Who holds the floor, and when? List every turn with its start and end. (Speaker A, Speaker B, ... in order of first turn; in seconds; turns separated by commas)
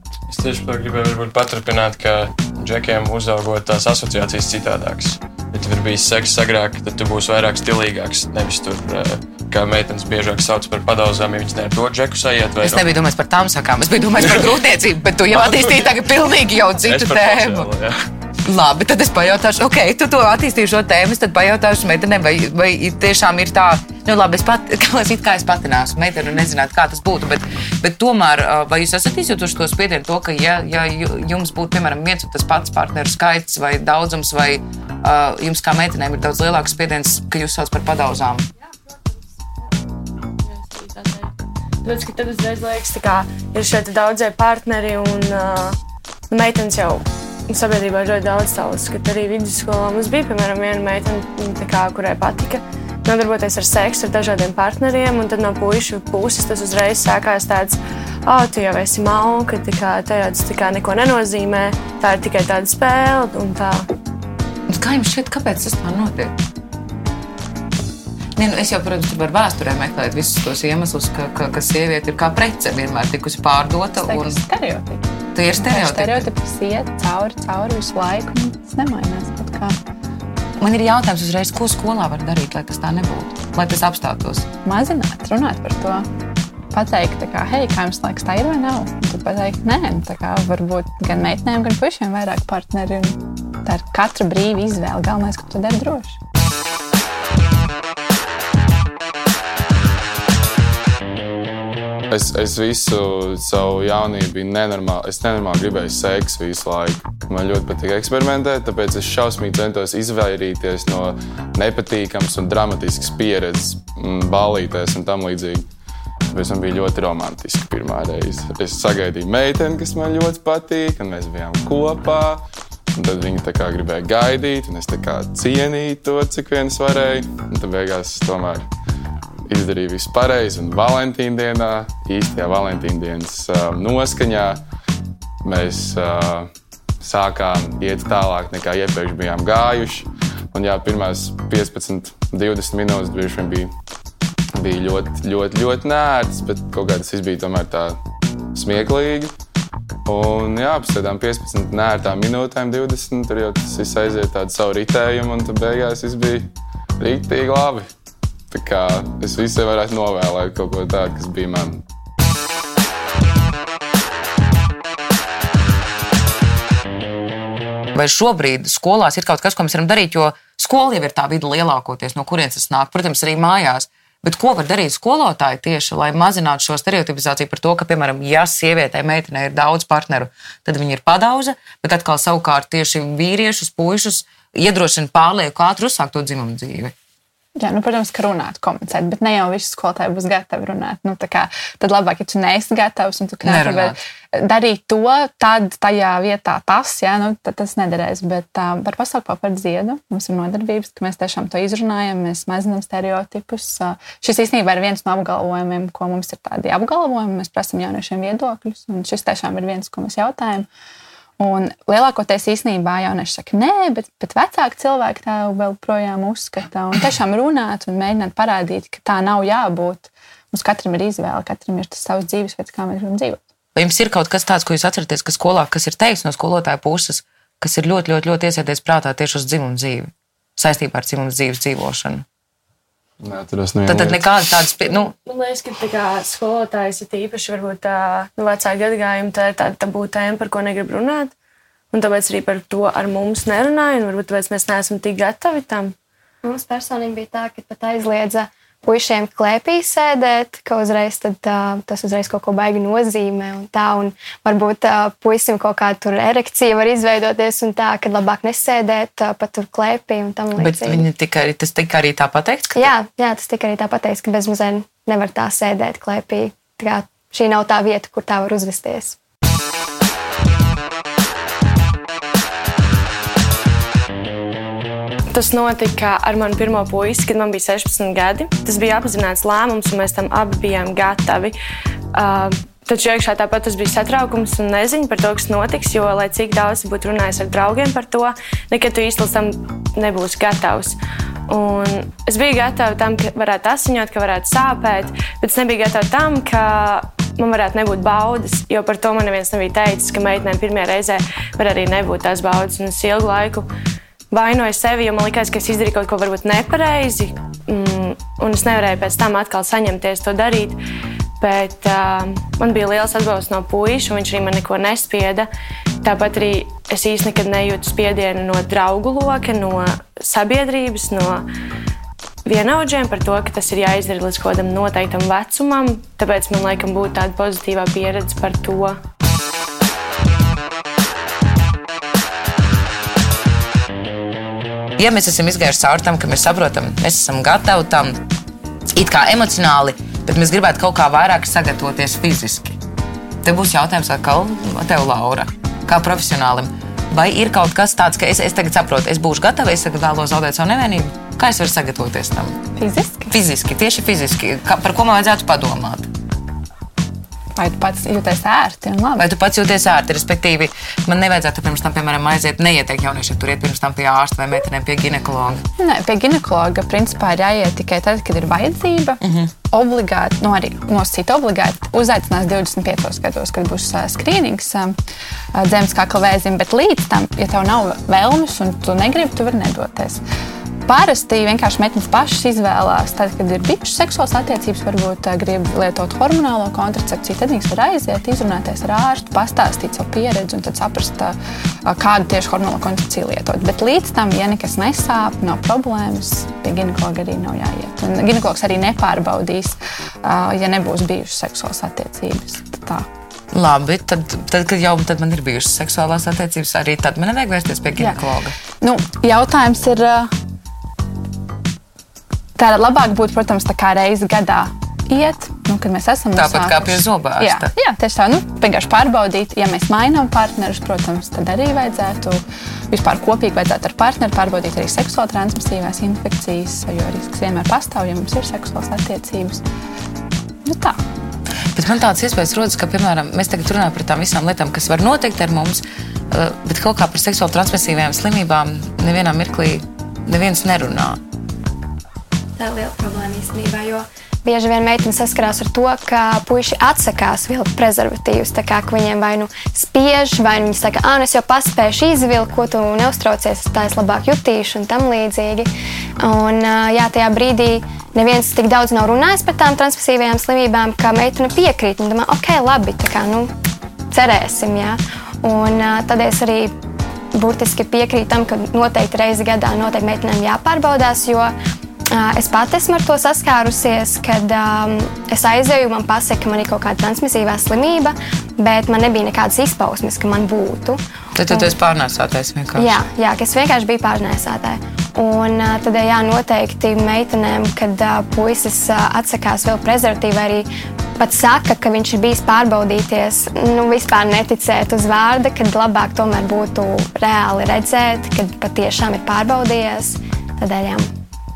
Speaker A: 0.3-12.9, Speaker B: 12.6-17.7, Speaker A: 15.5-15.9, Speaker A: 16.8-18.0, Speaker B: 18.4-38.5, Speaker C: 40.4-41.3, Speaker C: 41.8-45.8, Speaker C: 46.3-63.9, Speaker B: 64.7-66.3, Speaker B: 68.4-74.4, Speaker D: 74.0-79.8, Speaker B: 75.3-76.3, Speaker B: 80.6-84.5, Speaker D: 84.6-86.0, Speaker D: 86.7-96.2, Speaker E: 102.1-115.7, Speaker E: 116.3-128.7, Speaker E: 129.5-134.6, Speaker E: 135.4-143.7, Speaker E: 144.5-148.0, Speaker E: 148.5-149.3, Speaker E: 150.1-157.9, Speaker E: 158.5-161.8, Speaker B: 167.9-186.9, Speaker D: 187.6-210.7, Speaker B: 193.4-193.9, Speaker D: 211.4-223.4, Speaker B: 223.7-232.2, Speaker E: 233.2-234.2, Speaker B: 233.9-235.1, Speaker C: 234.8-241.3, Speaker C: 241.9-245.9, Speaker F: 246.4-261.0, Speaker B: 260.6-262.9, Speaker F: 262.8-269.2, Speaker C: 275.3-281.6, Speaker C: 282.1-291.0, Speaker C: 291.5-303.7, Speaker C: 304.3-310.8, Speaker C: 311.4-315.5, Speaker C: 316.0-321.4, Speaker C: 322.4-329.0, Speaker B: 335.0-338.2, Speaker B: 338.9-342.8, Speaker B: 343.4-352.6, Speaker D: 352.8-353.3, Speaker B: 353.3-356.1, Speaker D: 357.6-359.3, Speaker B: 359.2-365.6, Speaker D: 365.8-369.2, Speaker B: 369.2-369.5, Speaker D: 369.7-374.9, Speaker D: 375.5-380.2, Speaker D: 380.9-403.1, Speaker B: 403.5-408.5, Speaker D: 408.8-410.3, Speaker D: 412.6-429.6, Speaker B: 416.3-417.7, Speaker D: 430.6-431.0, Speaker B: 431.8-441.2, Speaker F: 442.6-455.7, Speaker F: 456.2-463.5, Speaker F: 464.1-466.7, Speaker F: 467.3-471.5, Speaker F: 472.1-481.7, Speaker B: 481.4-483.0, Speaker F: 482.8-501.1